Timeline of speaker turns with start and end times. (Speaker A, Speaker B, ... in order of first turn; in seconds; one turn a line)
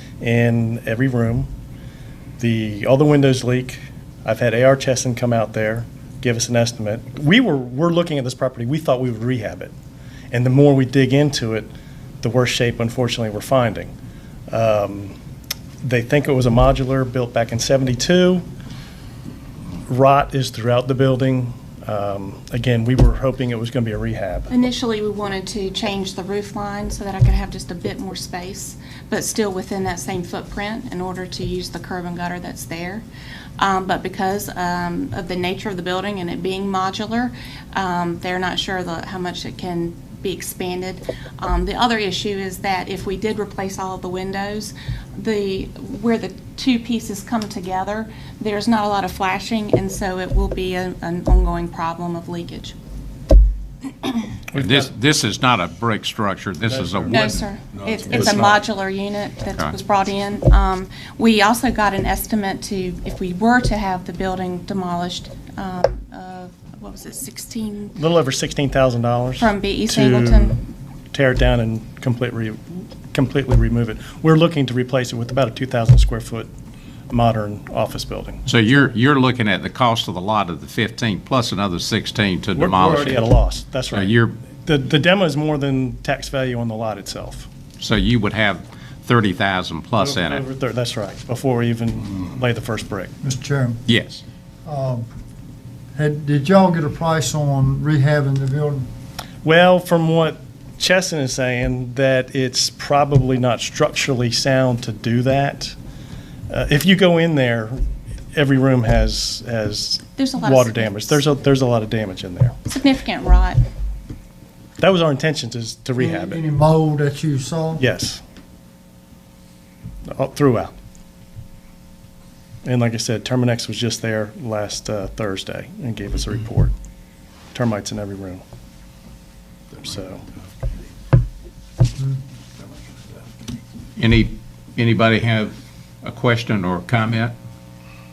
Speaker A: 0.2-1.5
Speaker A: 2.4-9.7
Speaker A: 10.3-13.9
Speaker A: 14.5-15.2
Speaker A: 15.8-18.4
Speaker A: 19.9-24.5
Speaker B: 24.5-33.0
Speaker B: 33.6-52.7
Speaker A: 54.5-54.9
Speaker C: 54.5-57.2
Speaker B: 57.0-68.0
Speaker A: 68.0-70.6
Speaker B: 69.4-70.6
Speaker A: 71.1-76.5
Speaker A: 77.1-78.5
Speaker C: 78.5-83.2
Speaker A: 82.5-87.5
Speaker C: 83.9-84.3
Speaker C: 87.8-90.4
Speaker A: 90.0-93.1
Speaker D: 93.2-93.8
Speaker C: 93.8-94.2
Speaker D: 94.7-95.1
Speaker D: 95.9-98.9
Speaker A: 99.4-105.7
Speaker A: 106.5-107.8
Speaker A: 108.3-112.5
Speaker B: 110.2-111.2
Speaker B: 112.7-113.6
Speaker A: 114.8-116.4
Speaker D: 116.0-117.8
Speaker A: 117.8-118.2
Speaker A: 120.1-120.7
Speaker A: 122.6-126.7
Speaker A: 127.5-128.4
Speaker A: 129.8-130.2
Speaker C: 134.0-137.3